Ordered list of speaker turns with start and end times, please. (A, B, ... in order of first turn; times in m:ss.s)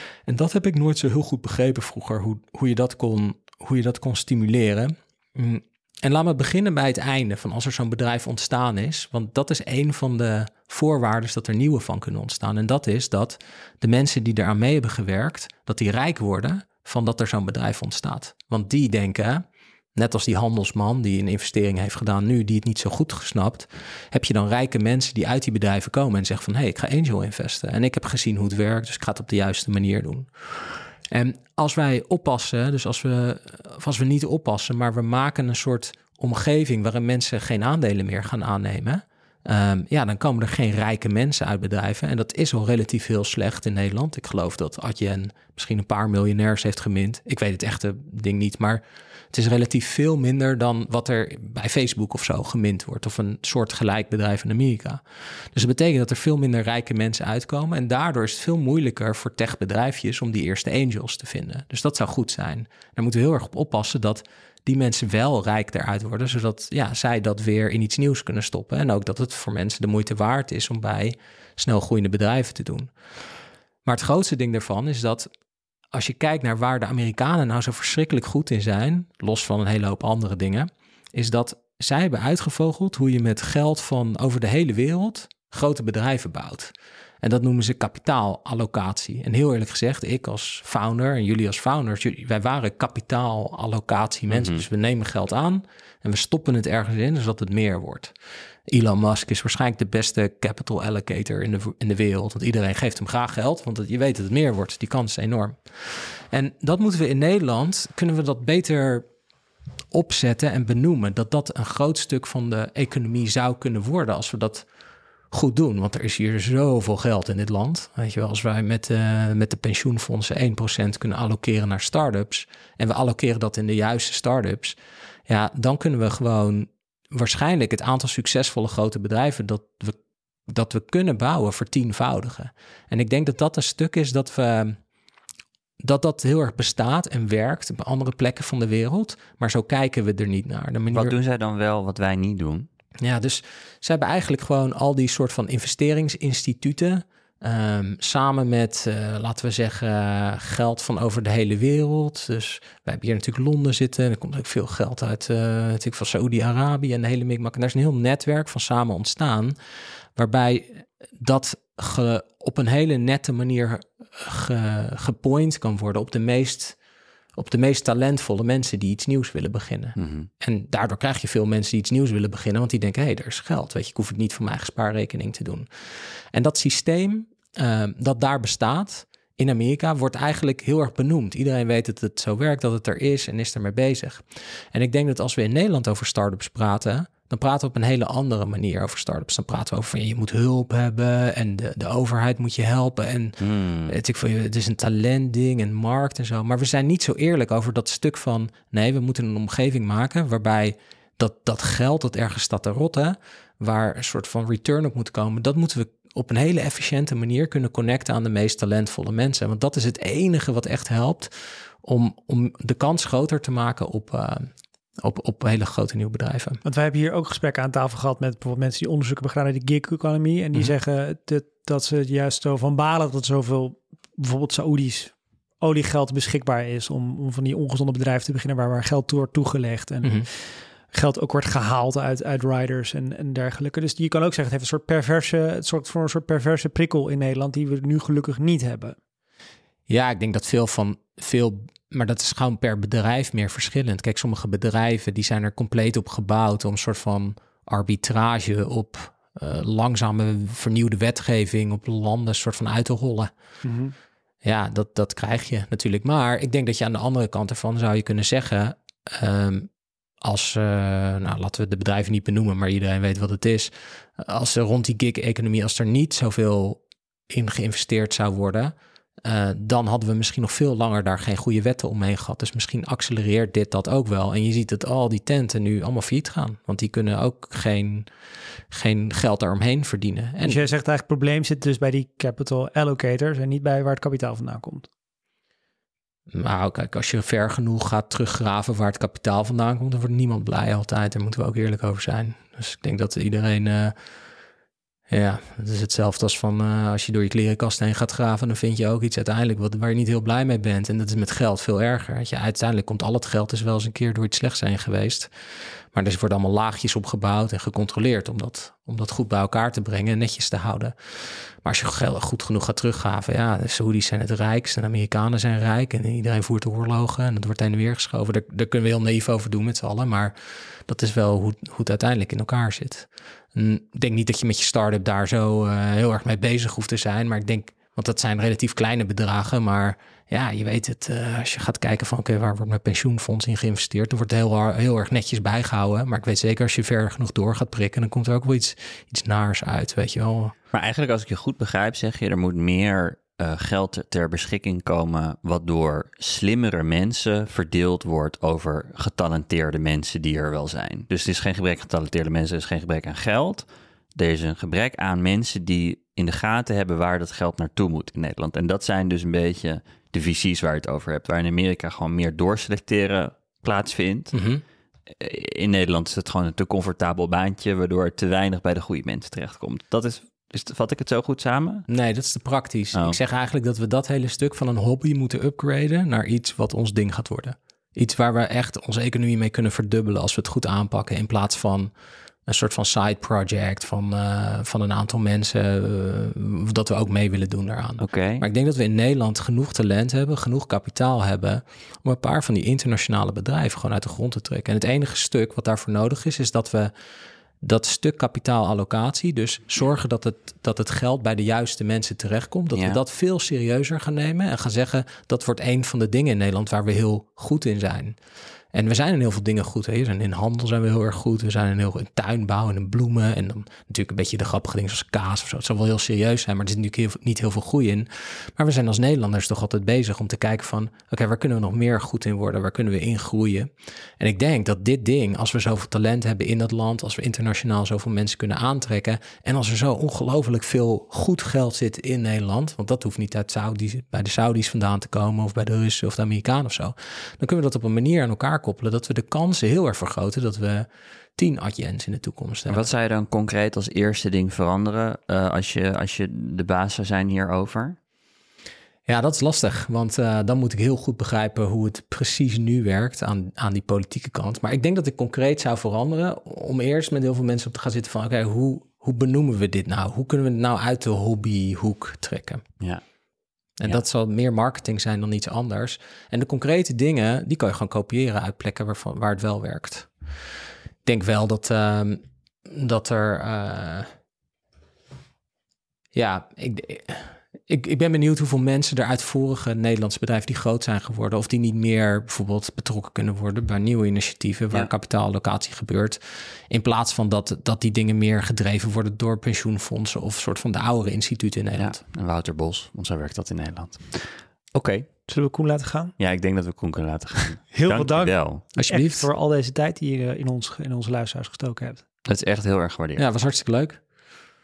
0:00.3-1:12.9 A
1:13.8-1:15.3 A
1:15.9-1:38.1 A
1:34.3-1:34.6 B
1:38.7-1:49.0 A
1:49.9-1:54.6 A
1:55.3-2:04.8 A
2:05.3-2:14.8 A
2:15.8-2:21.1 A
2:20.9-2:22.7 B
2:23.0-2:39.5 A
2:40.2-2:46.8 A
2:47.4-3:36.6 A
2:50.0-2:50.3 B
3:13.4-3:14.0 B
3:36.6-3:59.0 C
3:50.0-3:50.3 A
3:59.9-4:13.3 A
4:13.6-4:13.9 C
4:14.4-4:19.7 A
4:20.2-4:38.1 A
4:38.7-4:40.6 A
4:40.4-4:44.9 C
4:46.3-4:53.9 A
4:55.1-5:05.3 A
5:05.9-5:40.5 A
5:40.7-6:04.3 B
6:04.3-6:04.6 A
6:05.2-6:11.8 B
6:11.9-6:21.9 A
6:22.5-6:36.9 A
6:28.0-6:28.4 B
6:37.6-6:48.2 A
6:42.7-6:43.0 B
6:48.7-7:22.8 A
7:22.7-7:28.0 B
7:29.1-7:42.6 A
7:43.8-7:50.1 A
7:51.0-7:54.1 A
7:56.1-8:12.0 A
8:11.8-8:15.1 B
8:15.3-8:16.1 C
8:16.2-8:18.6 B
8:17.7-8:22.0 C
8:18.7-8:19.3 A
8:22.2-8:23.2 B
8:23.2-8:24.0 A